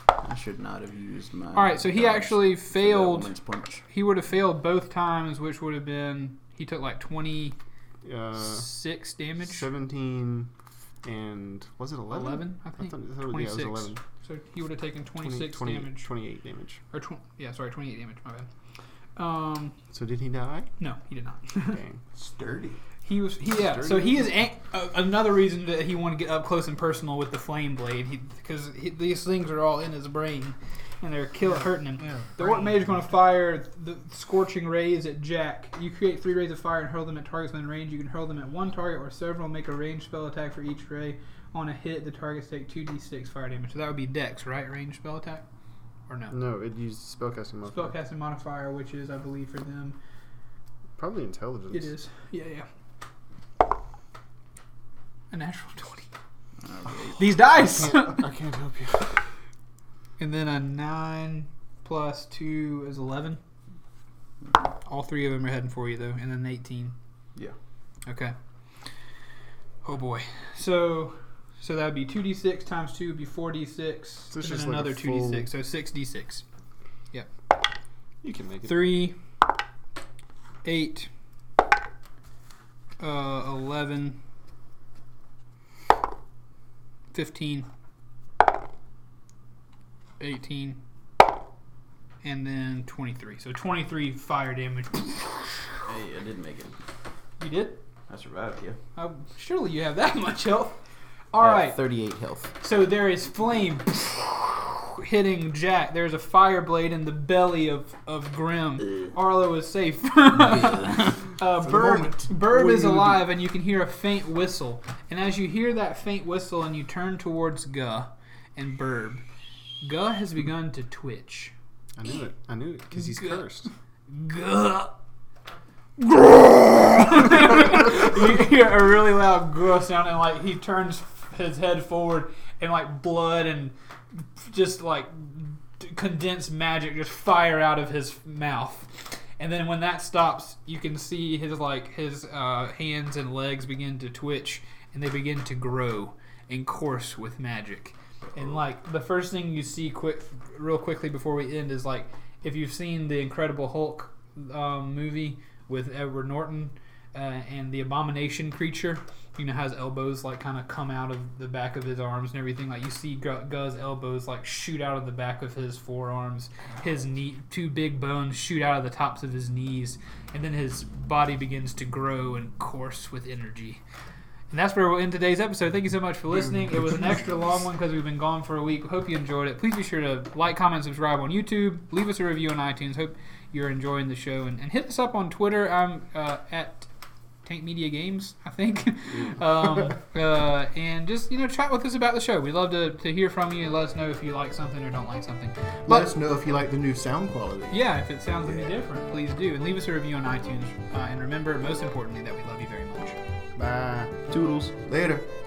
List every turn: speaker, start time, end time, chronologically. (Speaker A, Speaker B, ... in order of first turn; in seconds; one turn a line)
Speaker A: 0.2-3.8
Speaker B: 1.5-3.3
Speaker B: 3.9-7.5
Speaker C: 8.0-8.8
Speaker B: 8.3-9.7
Speaker C: 9.4-10.5
Speaker C: 11.0-14.0
Speaker B: 12.1-16.1
Speaker C: 15.2-16.8
Speaker B: 16.9-18.5
Speaker B: 19.1-19.8
Speaker C: 19.9-20.7
Speaker B: 20.8-21.8
Speaker C: 21.7-22.0
Speaker A: 22.1-22.8
Speaker B: 23.0-45.4
Speaker C: 23.5-24.3
Speaker A: 32.1-32.5
Speaker B: 46.1-46.3
Speaker C: 46.3-48.0
Speaker B: 47.7-50.0
Speaker C: 51.0-51.9
Speaker B: 51.7-52.6
Speaker B: 55.3-56.1
Speaker A: 56.6-57.2
Speaker B: 57.2-58.3
Speaker C: 57.5-59.2
Speaker B: 60.2-63.4
Speaker B: 64.8-66.9
Speaker B: 68.0-68.3
Speaker B: 69.8-76.4
Speaker C: 74.3-75.5
Speaker C: 78.2-78.9
Speaker B: 78.6-79.2
Speaker B: 80.6-81.1
Speaker B: 83.0-84.2
Speaker B: 87.1-87.7
Speaker B: 90.2-90.8
Speaker B: 92.2-95.6
Speaker A: 95.8-96.7
Speaker B: 97.4-97.8
Speaker A: 98.1-98.8
Speaker B: 99.0-100.8
Speaker B: 101.3-101.8
Speaker A: 101.4-102.5
Speaker B: 102.6-119.2
Speaker A: 110.3-111.2
Speaker D: 111.6-113.2
Speaker B: 119.8-121.5
Speaker C: 122.0-123.7
Speaker B: 122.9-123.4
Speaker B: 124.1-124.9
Speaker B: 126.0-173.8
Speaker B: 174.5-186.9
Speaker B: 187.4-196.1
Speaker D: 195.8-197.8
Speaker B: 197.7-203.2
Speaker D: 203.6-204.1
Speaker A: 204.3-204.7
Speaker D: 204.8-205.2